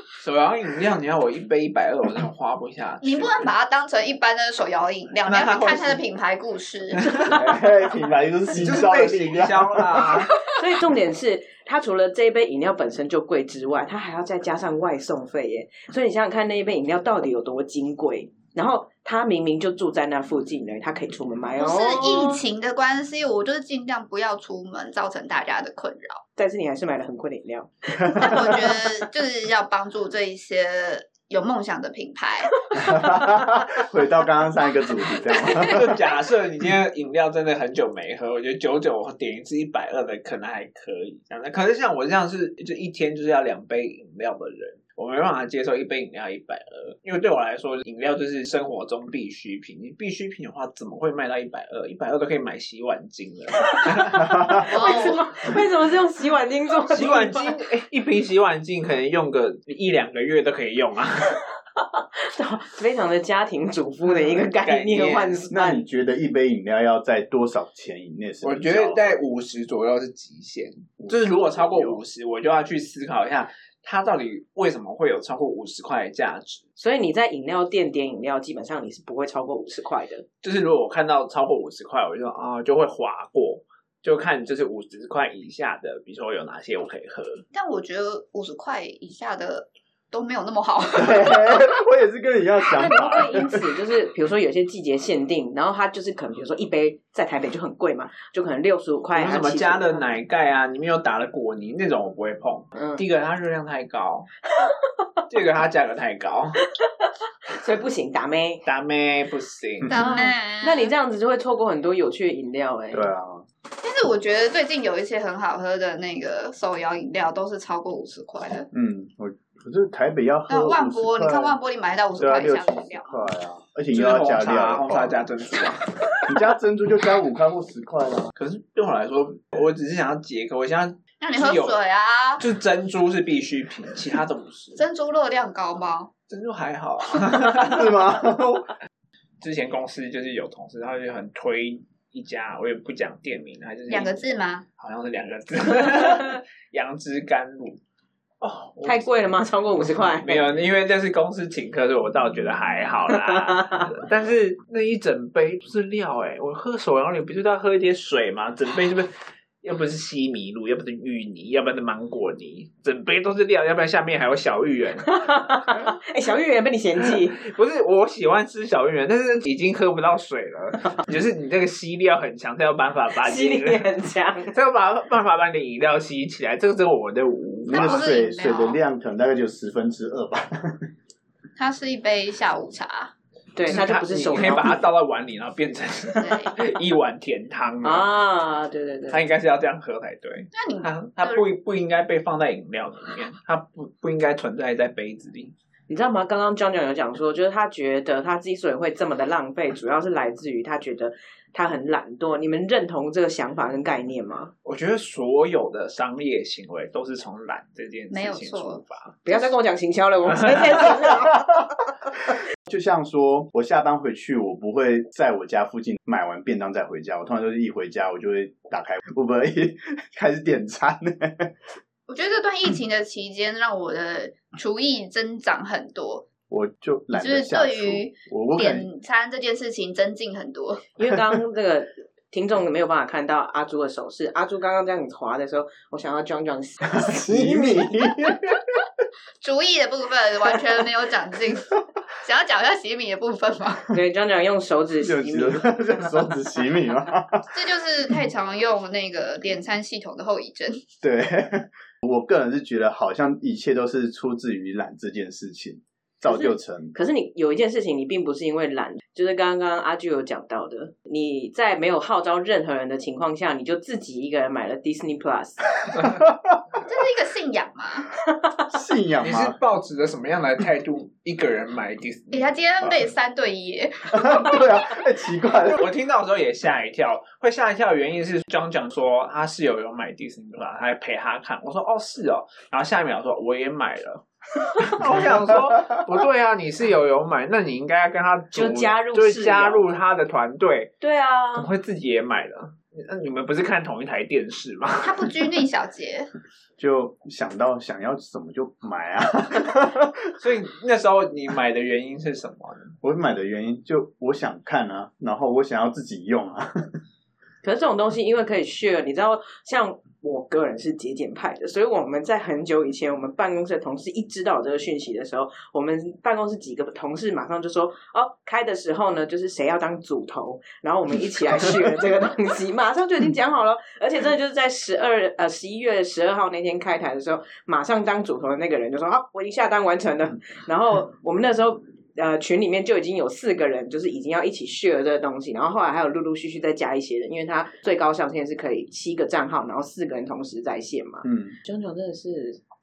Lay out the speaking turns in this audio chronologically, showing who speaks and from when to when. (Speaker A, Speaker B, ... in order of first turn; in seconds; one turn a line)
Speaker A: 0.2-3.5
Speaker B: 3.0-7.2
Speaker A: 5.2-6.0
Speaker C: 7.2-10.3
Speaker A: 8.5-10.3
Speaker D: 10.3-22.4
Speaker B: 21.6-26.2
Speaker D: 26.4-29.0
Speaker C: 28.0-28.3
Speaker B: 28.1-32.7
Speaker C: 32.7-36.0
Speaker D: 32.9-33.3
Speaker B: 35.4-35.9
Speaker A: 35.6-54.5
Speaker D: 53.8-57.5
Speaker C: 54.2-54.7
Speaker B: 54.7-55.2
Speaker A: 56.9-61.4
Speaker D: 61.8-65.8
Speaker A: 64.1-65.5
Speaker C: 65.5-69.2
Speaker A: 68.4-76.6
Speaker C: 71.0-72.0
Speaker D: 76.8-80.2
Speaker A: 80.4-87.4
Speaker B: 87.5-91.7
Speaker C: 90.9-93.7
Speaker D: 92.7-100.0
Speaker A: 99.1-104.3
Speaker D: 102.7-103.0
Speaker D: 104.6-105.0
Speaker A: 105.3-106.6
Speaker D: 106.8-108.6
Speaker A: 108.6-110.0
Speaker B: 109.9-110.9
Speaker D: 109.9-113.1
Speaker C: 112.9-113.4
Speaker B: 113.8-118.7
Speaker C: 118.7-121.6
Speaker B: 120.5-123.2
Speaker C: 122.2-125.2
Speaker A: 123.9-125.9
Speaker C: 126.2-128.3
Speaker A: 128.3-131.8
Speaker B: 131.2-132.4
Speaker A: 132.4-134.8
Speaker B: 134.8-136.1
Speaker A: 136.3-138.0
Speaker C: 137.5-138.7
Speaker A: 139.4-144.3
Speaker B: 143.9-144.6
Speaker A: 144.8-147.8
Speaker A: 148.4-149.3
Speaker D: 148.8-150.4
Speaker A: 150.0-165.2
Speaker D: 153.5-153.8
Speaker D: 165.1-167.4
Speaker A: 167.1-173.9
Speaker D: 173.2-174.5
Speaker A: 174.5-178.1
Speaker C: 177.7-180.9
Speaker B: 177.7-178.8
Speaker B: 181.6-183.1
Speaker D: 183.5-184.8
Speaker A: 183.6-188.1
Speaker B: 186.2-186.6
Speaker D: 187.8-189.2
Speaker A: 189.1-195.5
Speaker B: 190.5-191.4
Speaker D: 195.9-204.5
Speaker A: 204.6-209.2
Speaker B: 208.1-208.8
Speaker D: 209.2-211.7
Speaker C: 212.6-221.5
Speaker B: 222.1-226.3
Speaker C: 226.5-228.8
Speaker B: 227.1-230.8
Speaker D: 231.0-238.3
Speaker C: 236.9-238.6
Speaker B: 239.4-243.9
Speaker D: 243.9-246.1
Speaker C: 245.0-247.5
Speaker B: 247.5-250.8
Speaker C: 251.0-256.9
Speaker D: 256.3-265.7
Speaker C: 266.0-266.6
Speaker B: 266.8-268.1
Speaker C: 268.7-269.5
Speaker A: 269.2-272.5
Speaker B: 272.3-274.6
Speaker C: 274.1-275.8
Speaker A: 275.6-284.2
Speaker A: 284.7-290.9
Speaker D: 288.5-289.9
Speaker D: 291.0-291.7
Speaker A: 291.5-295.3
Speaker B: 295.0-296.3
Speaker C: 296.8-300.3
Speaker A: 300.4-302.9
Speaker C: 303.0-306.7
Speaker D: 307.6-342.6
Speaker C: 341.2-341.6